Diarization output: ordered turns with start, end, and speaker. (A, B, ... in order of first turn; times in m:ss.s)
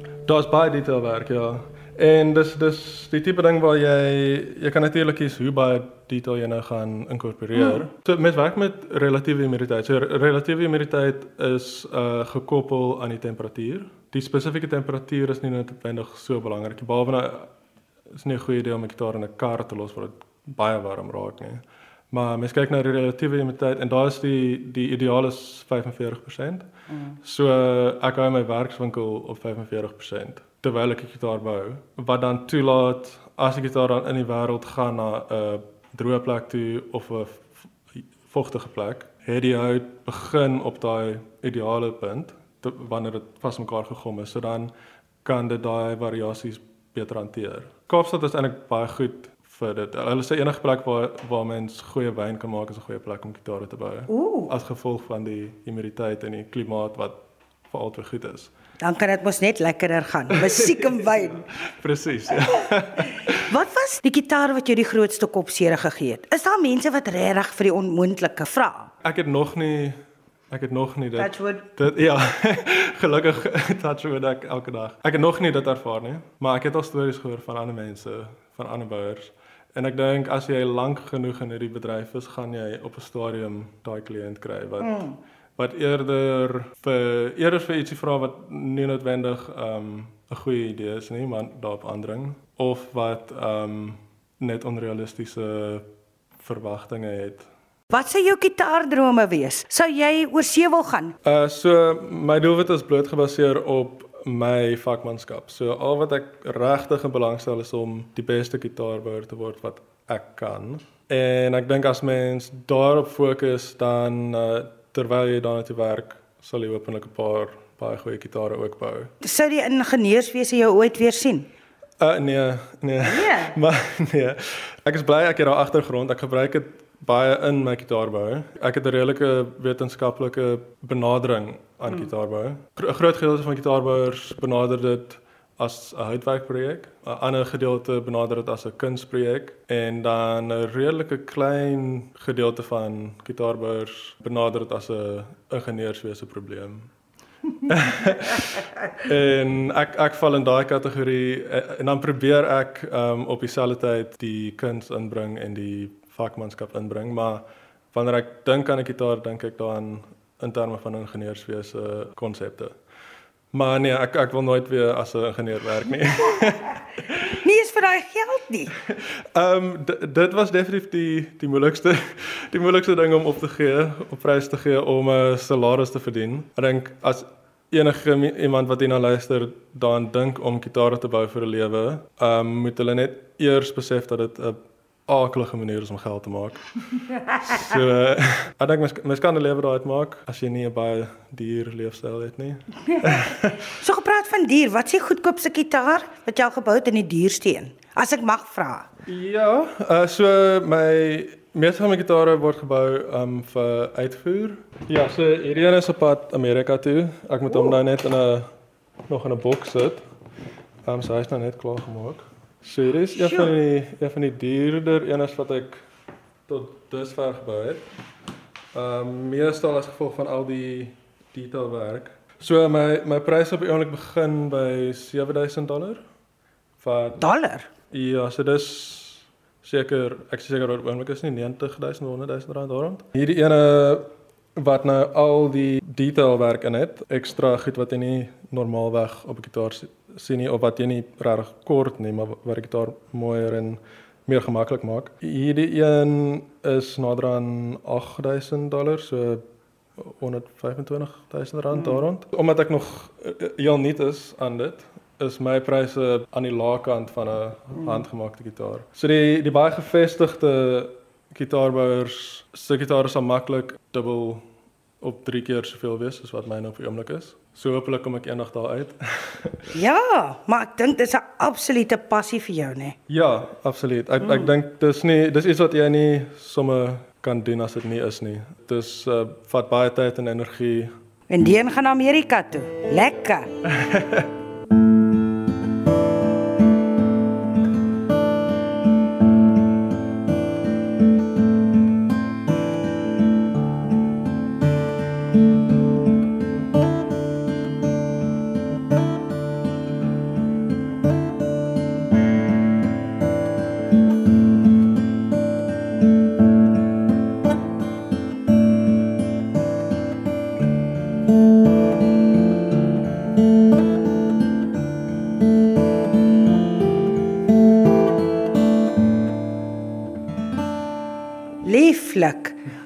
0:00.3-0:17.5 A
0:07.6-0:07.8 B
0:18.1-0:26.7 A
0:27.2-0:44.7 A
0:45.2-0:57.2 A
0:54.1-0:54.5 B
0:57.7-0:58.5 A
0:58.8-1:01.4 B
1:00.3-1:03.5 A
1:03.3-1:08.9 B
1:09.0-1:10.0 A
1:10.5-1:35.9 A
1:11.2-1:11.6 B
1:24.8-1:25.2 B
1:36.4-1:37.5 A
1:37.9-1:41.2 B
1:41.2-1:59.1 A
1:59.2-2:01.5 B
2:02.0-2:26.9 A
2:03.0-2:03.6 B
2:27.6-2:42.7 A
2:43.5-2:47.4 A
2:47.3-2:48.7 B
2:48.8-3:13.8 A
3:13.8-3:18.9 B
3:19.1-3:28.5 A
3:29.1-3:30.0 A
3:30.9-3:35.8 A
3:36.5-3:37.8 A
3:38.7-3:46.0 A
3:46.8-3:47.3 A
3:47.2-3:47.7 B
3:47.9-4:09.4 A
4:10.0-4:24.4 A
4:11.7-4:12.0 B
4:25.0-4:29.7 A
4:29.7-4:33.0 B
4:33.1-4:40.9 A
4:34.2-4:34.5 B
4:41.3-4:43.5 B
4:43.6-4:44.3 A
5:21.6-5:22.6 B